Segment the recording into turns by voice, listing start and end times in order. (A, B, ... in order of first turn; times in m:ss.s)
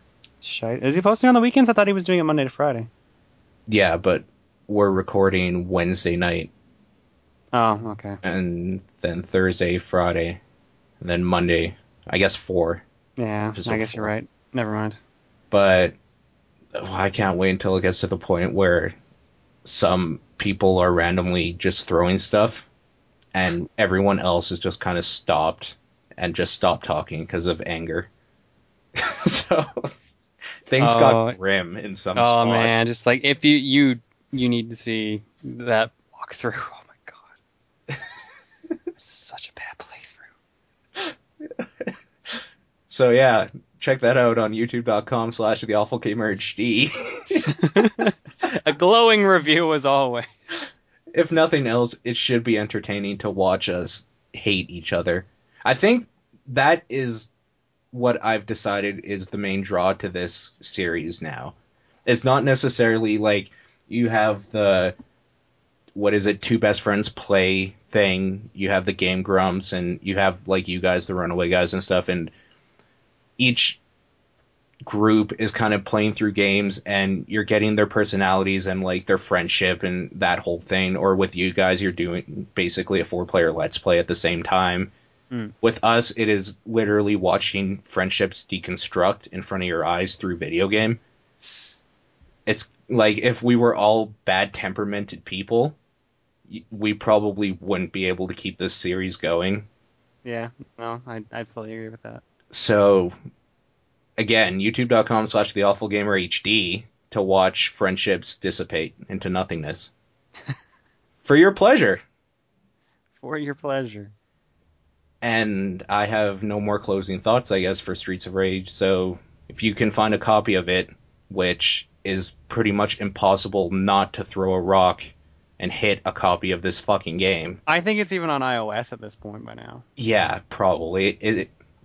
0:00.4-0:02.9 A
0:03.7-0:06.5 B
0:07.5-0:08.2 A
0:08.2-0:10.4 B
0:11.0-0:12.8 B
0:13.2-0:15.0 A
0:13.6-0:14.1 B
0:15.5-0:15.9 B
0:16.7-0:18.9 B
0:19.6-0:22.7 B
0:23.3-0:28.1 B
0:28.9-0:29.9 B
0:30.7-0:32.8 B
0:30.8-0:31.4 A
0:32.1-0:37.2 A
0:39.0-0:40.2 A
0:41.4-0:47.6 B
0:47.3-0:50.3 A
0:51.1-0:57.3 B
0:57.9-1:01.6 B
1:02.1-1:04.9 B
1:05.9-1:12.3 B
1:13.4-1:13.8 B
1:14.8-1:24.9 B
1:25.6-1:31.0 B
1:32.4-1:35.8 B
1:36.5-1:39.6 B
1:40.2-1:42.2 A
1:42.5-1:43.1 B
1:44.2-1:49.9 B
1:51.2-1:52.0 B
1:53.2-1:54.1 A
1:55.2-2:07.6 B
2:07.7-2:09.8 A
2:10.0-2:11.5 B